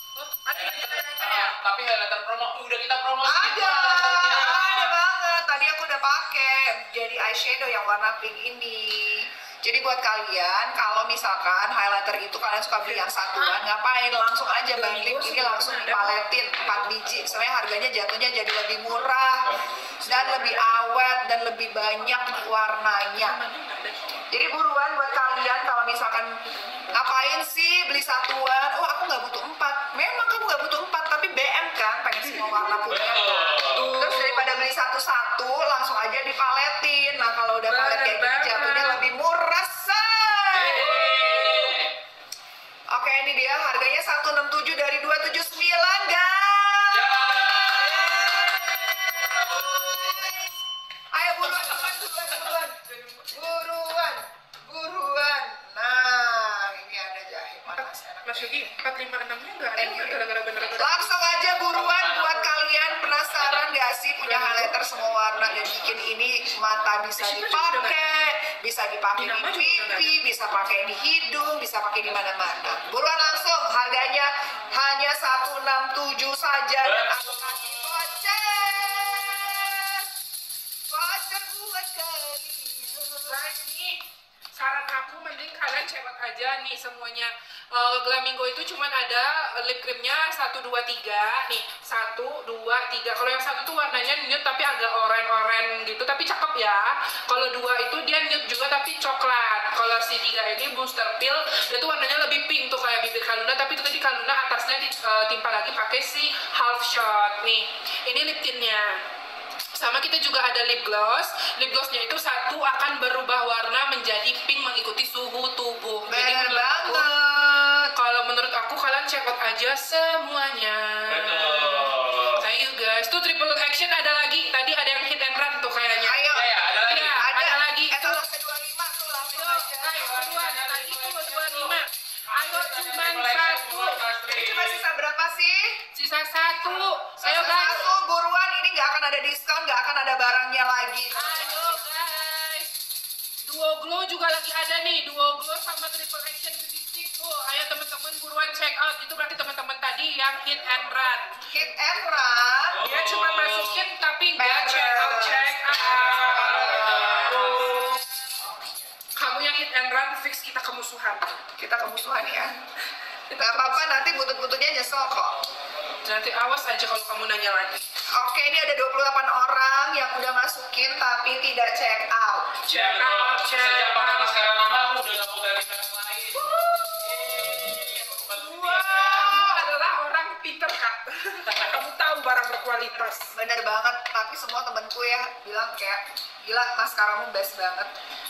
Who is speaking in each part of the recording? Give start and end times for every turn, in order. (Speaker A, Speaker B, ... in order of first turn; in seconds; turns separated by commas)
Speaker A: 0.2-1.5, Speaker B: 0.5-5.0, Speaker C: 1.2-1.5, Speaker C: 3.2-23.4, Speaker A: 12.9-13.6, Speaker A: 14.7-16.2, Speaker B: 19.5-19.8, Speaker A: 20.1-20.8, Speaker A: 23.2-24.3, Speaker C: 24.3-26.4, Speaker C: 26.9-41.1, Speaker B: 32.9-33.9, Speaker A: 33.7-34.6, Speaker A: 37.7-39.0, Speaker B: 40.5-41.9, Speaker A: 40.5-41.9, Speaker C: 42.9-50.5, Speaker B: 46.9-50.4, Speaker C: 51.1-58.7, Speaker A: 58.2-61.1, Speaker C: 59.7-60.2, Speaker C: 60.8-80.1, Speaker B: 61.7-62.5, Speaker B: 63.3-63.7, Speaker A: 64.2-64.7, Speaker B: 64.8-65.9, Speaker A: 67.2-68.0, Speaker A: 69.2-70.1, Speaker B: 76.8-78.0, Speaker C: 80.9-83.4, Speaker A: 83.3-109.0, Speaker A: 109.8-117.1, Speaker C: 116.1-117.9, Speaker A: 117.9-126.2, Speaker B: 121.1-122.4, Speaker C: 126.0-126.5, Speaker B: 126.3-127.2, Speaker A: 126.9-128.2, Speaker C: 127.1-130.3, Speaker A: 129.3-134.0, Speaker B: 129.9-131.8, Speaker B: 132.3-134.8, Speaker C: 134.3-135.8, Speaker A: 135.9-137.8, Speaker C: 136.7-141.8, Speaker A: 141.2-142.7, Speaker A: 143.5-151.5, Speaker C: 151.5-152.8, Speaker B: 152.7-153.9, Speaker A: 152.8-158.0, Speaker C: 154.4-158.7, Speaker B: 155.8-158.0, Speaker A: 159.2-161.4, Speaker C: 161.6-162.5, Speaker A: 163.3-163.9, Speaker C: 163.4-165.4, Speaker A: 166.0-167.8, Speaker C: 168.2-172.6, Speaker A: 172.7-174.4, Speaker B: 172.7-179.7, Speaker A: 176.5-176.8, Speaker C: 176.5-177.2, Speaker A: 178.2-183.3, Speaker C: 183.3-187.9